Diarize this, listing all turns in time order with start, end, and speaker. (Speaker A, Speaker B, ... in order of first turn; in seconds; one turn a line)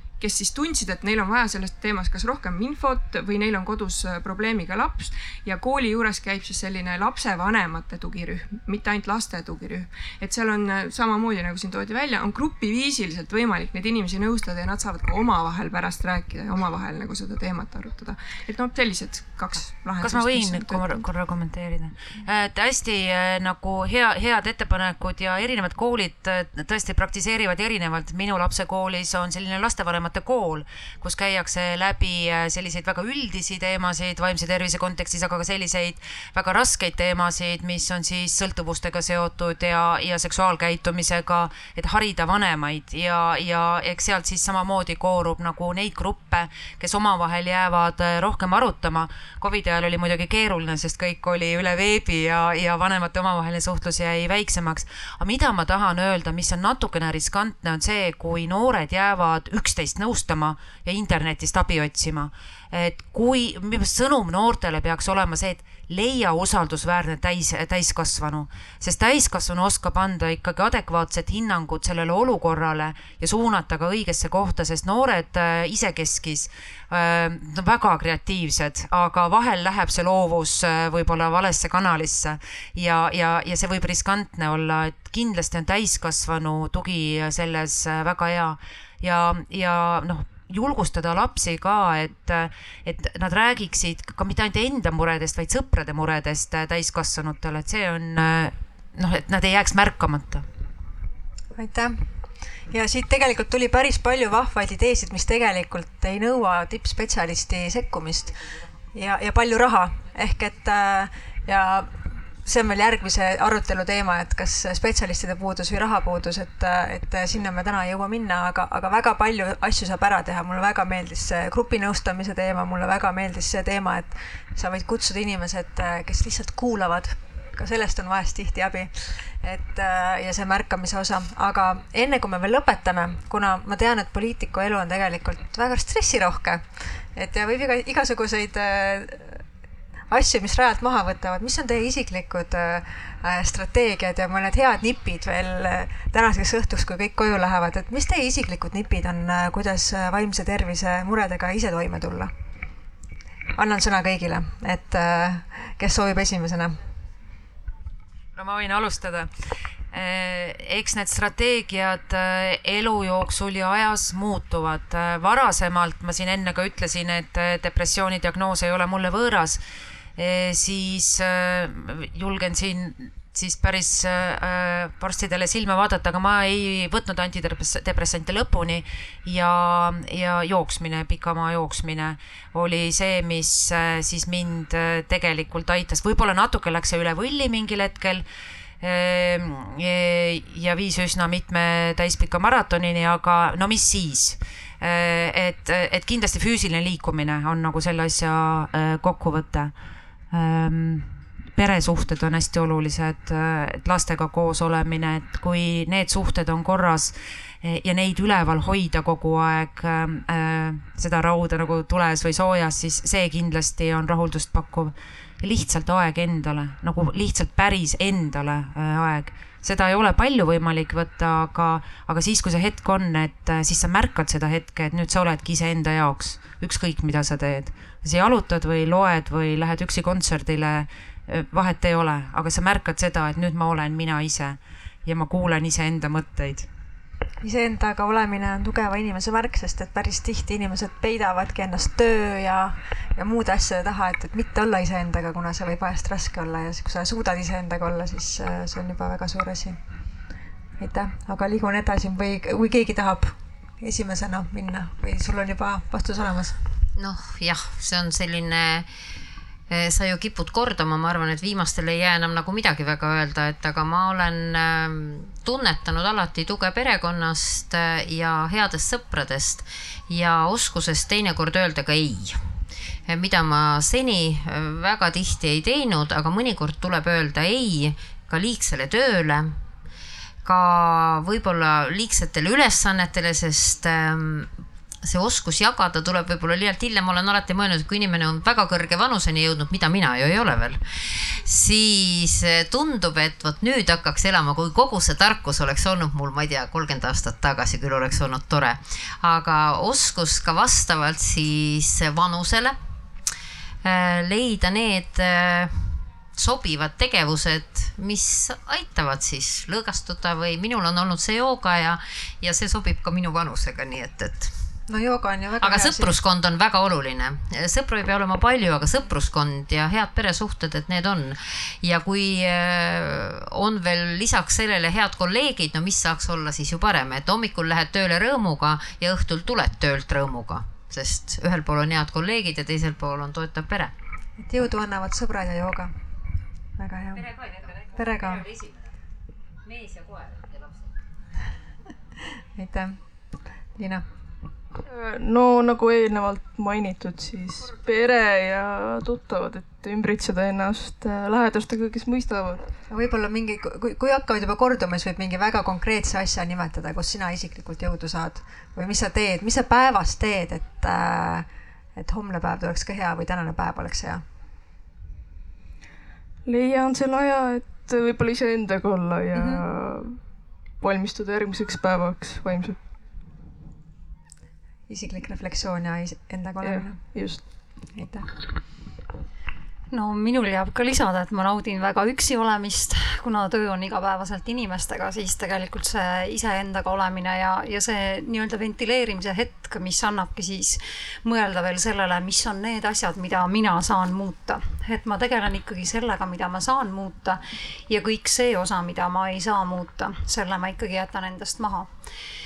Speaker A: 0.2-21.0
Speaker B: 20.0-100.4
Speaker C: 101.5-102.0
Speaker C: 102.7-139.4
Speaker C: 140.1-152.3
Speaker C: 153.6-156.8
Speaker B: 158.3-159.3
Speaker B: 159.9-169.6
Speaker B: 170.2-188.2
Speaker B: 188.8-199.7
Speaker B: 200.3-236.7
Speaker C: 237.4-249.8
Speaker C: 250.8-256.5
Speaker D: 256.9-258.9
Speaker D: 259.7-272.5
Speaker D: 273.1-279.6
Speaker D: 280.4-284.5
Speaker D: 285.0-302.8
Speaker D: 303.8-314.5
Speaker C: 314.9-316.1
Speaker D: 315.6-333.9
Speaker C: 334.4-335.9
Speaker C: 336.8-338.5
Speaker C: 342.5-343.0
Speaker C: 343.8-344.0
Speaker E: 344.8-352.7
Speaker C: 352.9-364.2
Speaker E: 366.4-370.2
Speaker C: 369.3-369.6
Speaker E: 370.8-372.8
Speaker C: 374.9-377.1
Speaker E: 376.6-377.4
Speaker C: 377.9-378.3
Speaker F: 379.9-401.9